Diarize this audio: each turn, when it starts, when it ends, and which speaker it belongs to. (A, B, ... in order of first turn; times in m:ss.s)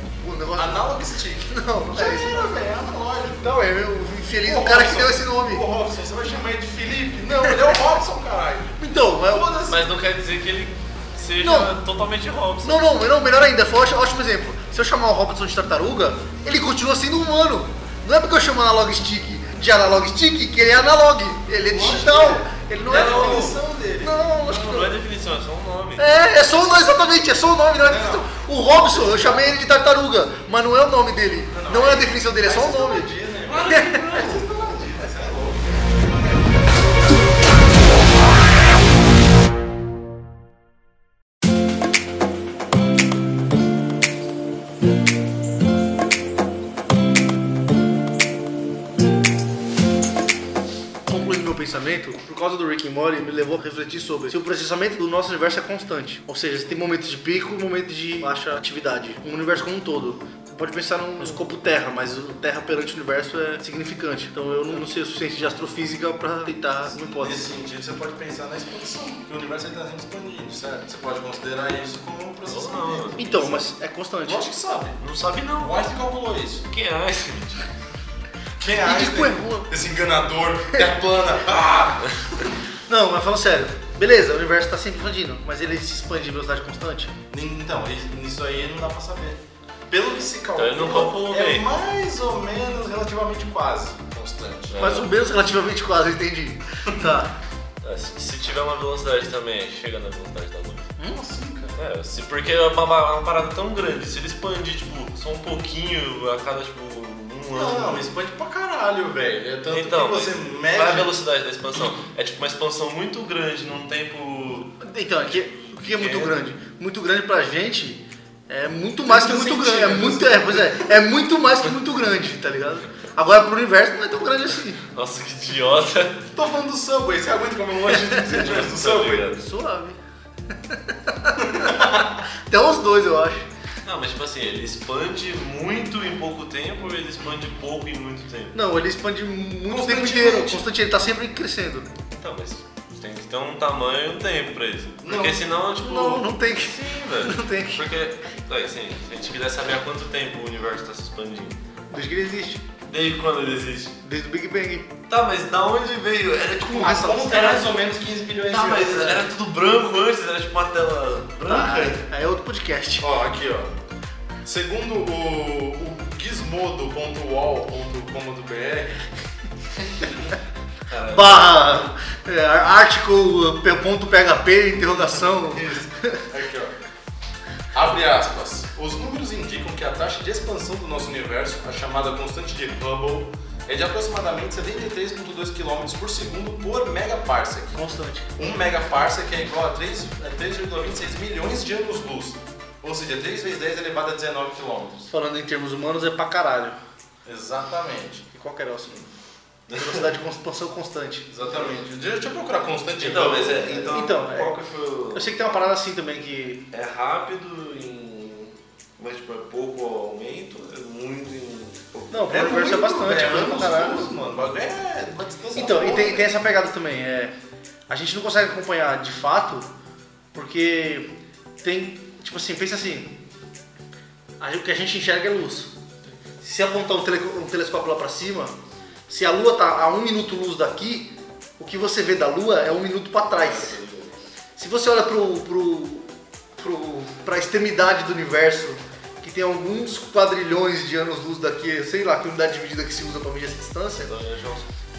0:00.2-0:00.8 A
0:00.6-0:03.6 B
0:01.5-0:02.6 A
0:03.4-0:05.6 A
0:04.4-0:09.8 B
0:08.8-0:09.5 A
0:09.7-0:12.9 C
0:11.4-0:11.8 A
0:12.6-0:25.0 A
0:21.6-0:24.2 B
0:22.9-0:23.6 C
0:24.5-0:26.2 C
0:26.0-0:33.1 A
0:27.8-0:28.3 B
0:28.8-0:29.3 B
0:31.5-0:36.5 B
0:33.5-0:35.0 C
0:33.7-0:34.2 A
0:51.1-1:07.5 A
1:07.0-1:13.5 B
1:12.5-1:13.6 C
1:13.2-1:14.5 A
1:14.2-1:15.0 B
1:15.0-1:15.8 C
1:15.6-1:16.7 B
1:16.7-1:17.7 C
1:18.6-1:22.5 B
1:18.8-1:19.7 A
1:22.9-1:27.2 A
1:27.3-1:34.8 B
1:30.6-1:31.7 C
1:34.7-1:35.1 C
1:34.8-1:37.3 A
1:37.8-1:40.9 C
1:41.0-1:41.8 B
1:41.8-1:48.0 C
1:47.5-1:51.1 B
1:49.7-1:54.8 C
1:54.8-2:04.8 A
1:55.3-1:56.4 C
1:59.0-2:00.9 B
2:04.8-2:06.2 C
2:06.3-2:09.3 B
2:08.1-2:10.0 A
2:08.3-2:09.4 C
2:10.5-2:13.5 A
2:13.8-2:18.6 C
2:18.5-2:21.9 A
2:19.7-2:20.7 B
2:22.1-2:31.6 C
2:25.0-2:25.4 B
2:25.8-2:27.9 A
2:31.9-2:32.6 A
2:32.9-2:33.9 C
2:34.0-2:34.9 A
2:35.1-2:37.7 C
2:36.7-2:39.2 B
2:36.8-2:37.1 A
2:38.5-2:42.0 C
2:41.5-2:43.1 A
2:43.0-2:43.8 B
2:44.4-2:49.0 B
2:50.9-2:51.9 C
2:51.1-2:56.2 A
2:55.3-2:56.8 B
2:57.7-3:07.8 B
3:07.7-3:08.5 A
3:08.4-3:15.1 B
3:15.1-3:16.8 A
3:17.2-3:18.2 B
3:18.3-3:19.1 A
3:19.7-3:21.3 A
3:21.3-3:24.1 B
3:23.0-3:25.3 C
3:23.9-3:24.6 A
3:25.1-3:26.6 A
3:26.7-3:32.2 C
3:32.1-3:34.1 A
3:32.3-3:36.3 B
3:35.6-3:37.3 A
3:37.9-3:39.7 A
3:40.3-3:41.1 A
3:41.6-3:43.2 A
3:44.4-3:45.7 A
3:46.4-3:48.6 A
3:49.1-3:53.8 A
3:53.4-3:54.2 C
3:54.6-4:04.1 A
4:04.0-4:04.7 C